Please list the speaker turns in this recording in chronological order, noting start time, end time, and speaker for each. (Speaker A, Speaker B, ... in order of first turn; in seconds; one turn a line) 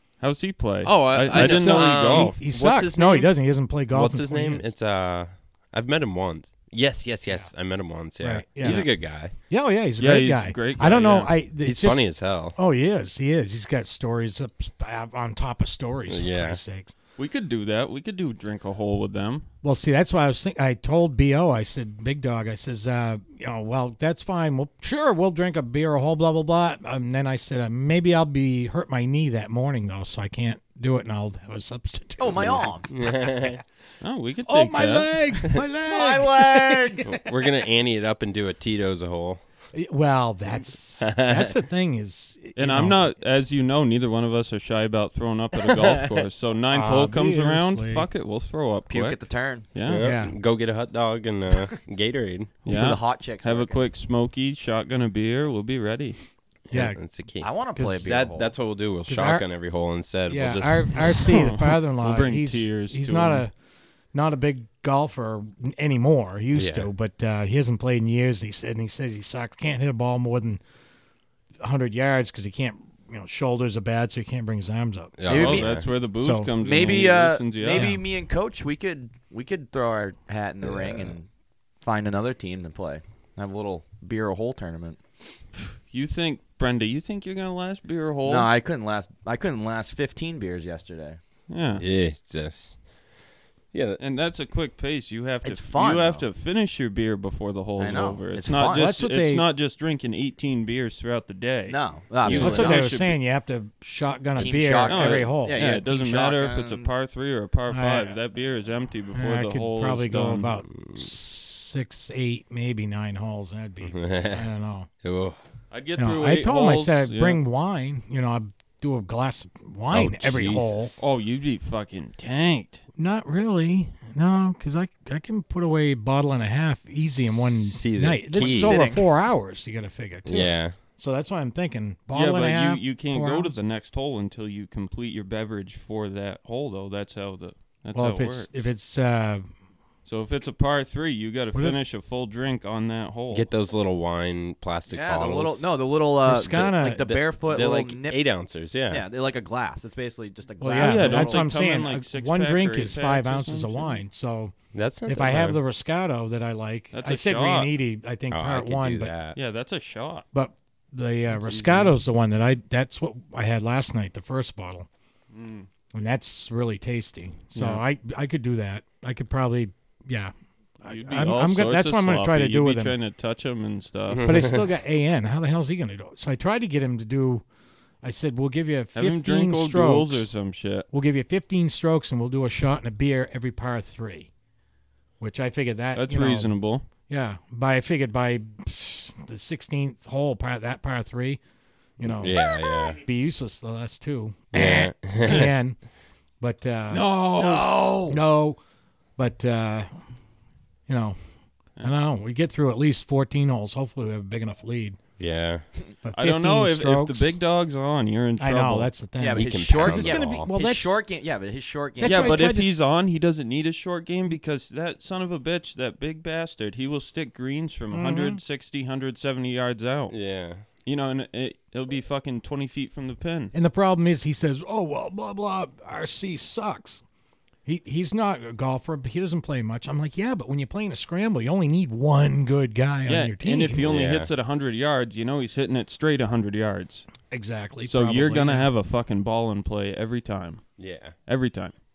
Speaker A: 0.2-2.4
Speaker B: 0.8-3.3
Speaker C: 1.3-4.7
Speaker B: 3.9-9.3
Speaker C: 8.2-8.9
Speaker A: 8.6-8.9
Speaker C: 9.5-16.9
Speaker A: 10.0-11.3
Speaker B: 11.6-12.6
Speaker B: 16.1-16.6
Speaker A: 17.2-19.4
Speaker C: 19.6-32.7
Speaker D: 32.2-32.9
Speaker B: 32.9-33.6
Speaker A: 34.0-35.1
Speaker C: 34.4-37.2
Speaker D: 35.9-37.1
Speaker B: 37.0-39.4
Speaker C: 39.7-43.1
Speaker B: 41.0-41.5
Speaker A: 42.6-49.2
Speaker B: 45.6-46.2
Speaker C: 46.7-48.1
Speaker D: 48.9-49.6
Speaker A: 49.7-50.1
Speaker B: 49.9-52.5
Speaker C: 49.9-50.3
Speaker A: 52.6-56.2
Speaker D: 52.6-53.8
Speaker B: 56.7-61.1
Speaker C: 56.7-57.0
Speaker D: 57.4-58.5
Speaker C: 59.0-59.4
Speaker C: 60.3-63.5
Speaker A: 61.1-63.4
Speaker C: 64.1-70.6
Speaker B: 66.5-66.9
Speaker C: 71.6-75.2
Speaker B: 75.2-75.9
Speaker D: 75.3-75.7
Speaker A: 75.3-77.9
Speaker C: 76.2-77.0
Speaker D: 76.6-81.3
Speaker C: 77.7-78.0
Speaker D: 81.8-85.0
Speaker A: 85.9-88.5
Speaker D: 88.2-91.2
Speaker A: 91.5-91.8
Speaker B: 91.8-92.8
Speaker B: 93.7-94.0
Speaker A: 94.0-103.2
Speaker D: 95.4-96.2
Speaker D: 97.8-98.9
Speaker C: 98.7-99.4
Speaker D: 101.7-102.8
Speaker C: 102.3-105.6
Speaker D: 104.3-106.9
Speaker A: 104.4-110.5
Speaker C: 107.7-108.2
Speaker C: 109.1-114.9
Speaker B: 110.7-111.0
Speaker B: 113.9-114.5
Speaker B: 115.0-115.4
Speaker A: 115.7-117.4
Speaker C: 116.0-121.0
Speaker B: 119.9-121.0
Speaker A: 121.0-122.8
Speaker C: 123.0-133.6
Speaker B: 127.3-128.9
Speaker D: 128.3-129.0
Speaker B: 130.2-130.8
Speaker A: 132.1-138.5
Speaker C: 137.9-139.4
Speaker A: 140.1-143.5
Speaker B: 143.3-145.6
Speaker D: 144.9-148.2
Speaker C: 146.2-147.2
Speaker B: 147.4-149.0
Speaker D: 148.9-151.5
Speaker C: 150.6-154.5
Speaker A: 150.8-154.0
Speaker B: 154.7-155.6
Speaker C: 155.1-159.1
Speaker A: 156.9-157.7
Speaker B: 158.3-159.4
Speaker A: 159.3-160.2
Speaker C: 160.3-164.9
Speaker A: 161.3-162.0
Speaker A: 165.3-165.7
Speaker C: 165.9-172.9
Speaker A: 167.5-167.8
Speaker A: 170.9-174.6
Speaker B: 174.1-174.7
Speaker C: 174.2-177.4
Speaker C: 178.0-180.3
Speaker A: 178.9-180.8
Speaker C: 180.9-184.3
Speaker C: 185.2-186.5
Speaker A: 185.9-186.9
Speaker C: 187.1-191.4
Speaker C: 192.0-192.4
Speaker B: 192.1-193.0
Speaker C: 193.0-195.8
Speaker B: 194.5-195.5
Speaker C: 196.4-198.6
Speaker A: 196.9-197.7
Speaker D: 197.3-198.2
Speaker C: 199.2-199.9
Speaker C: 200.9-201.2
Speaker C: 201.8-205.0
Speaker B: 205.2-205.6
Speaker C: 206.0-207.4
Speaker A: 206.1-208.9
Speaker C: 208.4-210.9
Speaker D: 209.2-212.4
Speaker B: 209.3-210.5
Speaker C: 212.0-212.9
Speaker A: 212.0-220.2
Speaker C: 217.9-218.4
Speaker B: 220.1-220.6
Speaker A: 220.8-223.5
Speaker C: 223.5-227.0
Speaker C: 227.7-233.8
Speaker A: 233.1-237.1
Speaker B: 233.8-234.3
Speaker C: 237.3-238.7
Speaker A: 237.8-240.6
Speaker B: 240.8-241.1
Speaker A: 241.3-241.7